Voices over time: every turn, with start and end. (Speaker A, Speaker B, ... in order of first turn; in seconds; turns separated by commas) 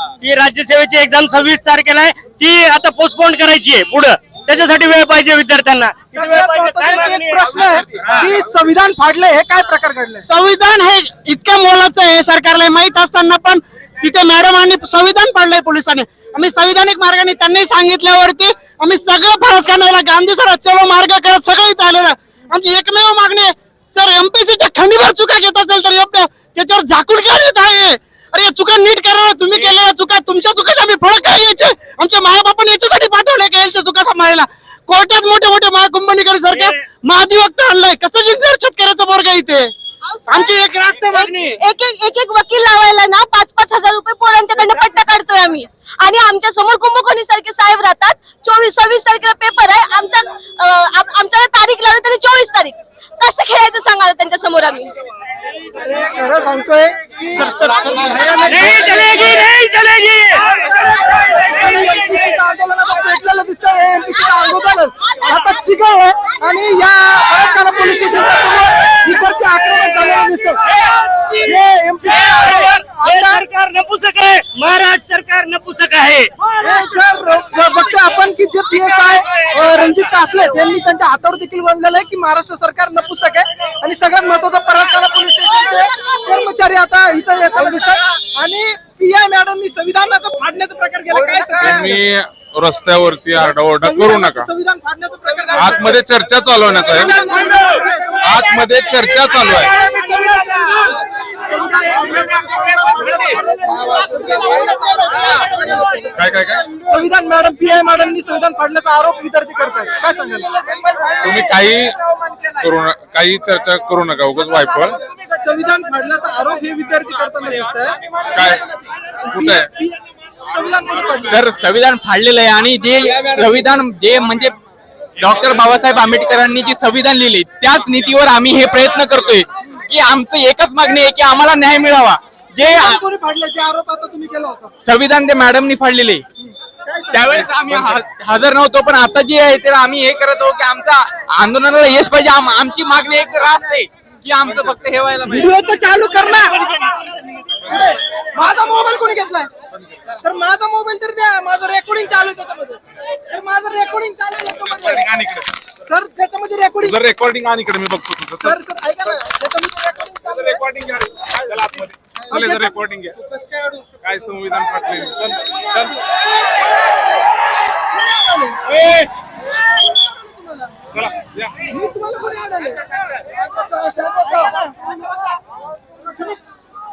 Speaker A: 0.2-8.3, Speaker B: 6.1-10.3, Speaker C: 10.3-39.7, Speaker D: 40.1-55.0, Speaker C: 40.3-41.6, Speaker B: 55.8-59.4, Speaker A: 57.4-60.5, Speaker B: 60.5-70.7, Speaker A: 70.8-71.4, Speaker B: 71.3-73.4, Speaker A: 72.1-76.3, Speaker B: 76.5-92.0, Speaker E: 91.3-94.5, Speaker B: 93.3-96.0, Speaker E: 95.6-97.1, Speaker B: 96.6-98.5, Speaker E: 98.2-99.8, Speaker B: 99.0-111.5, Speaker E: 106.2-106.7, Speaker E: 111.2-112.0, Speaker E: 112.5-115.0, Speaker B: 115.3-118.0, Speaker E: 118.3-118.6, Speaker B: 119.3-120.0, Speaker E: 119.3-119.7, Speaker B: 120.5-121.4, Speaker F: 121.3-124.6, Speaker F: 125.2-133.0, Speaker B: 132.6-134.7, Speaker F: 134.8-136.2, Speaker B: 136.4-137.5, Speaker F: 137.1-145.5, Speaker B: 145.3-147.0, Speaker B: 147.6-149.5, Speaker E: 149.7-150.0, Speaker B: 150.1-155.1, Speaker E: 154.6-155.5, Speaker B: 155.9-157.0, Speaker E: 156.8-158.6, Speaker B: 158.4-160.6, Speaker E: 160.3-163.2, Speaker B: 162.3-162.8, Speaker B: 163.3-163.8, Speaker E: 164.0-166.0, Speaker B: 164.5-167.3, Speaker B: 167.9-168.8, Speaker E: 168.7-169.1, Speaker B: 169.5-170.8, Speaker E: 170.9-171.7, Speaker B: 171.7-172.8, Speaker B: 173.4-174.9, Speaker B: 176.1-176.4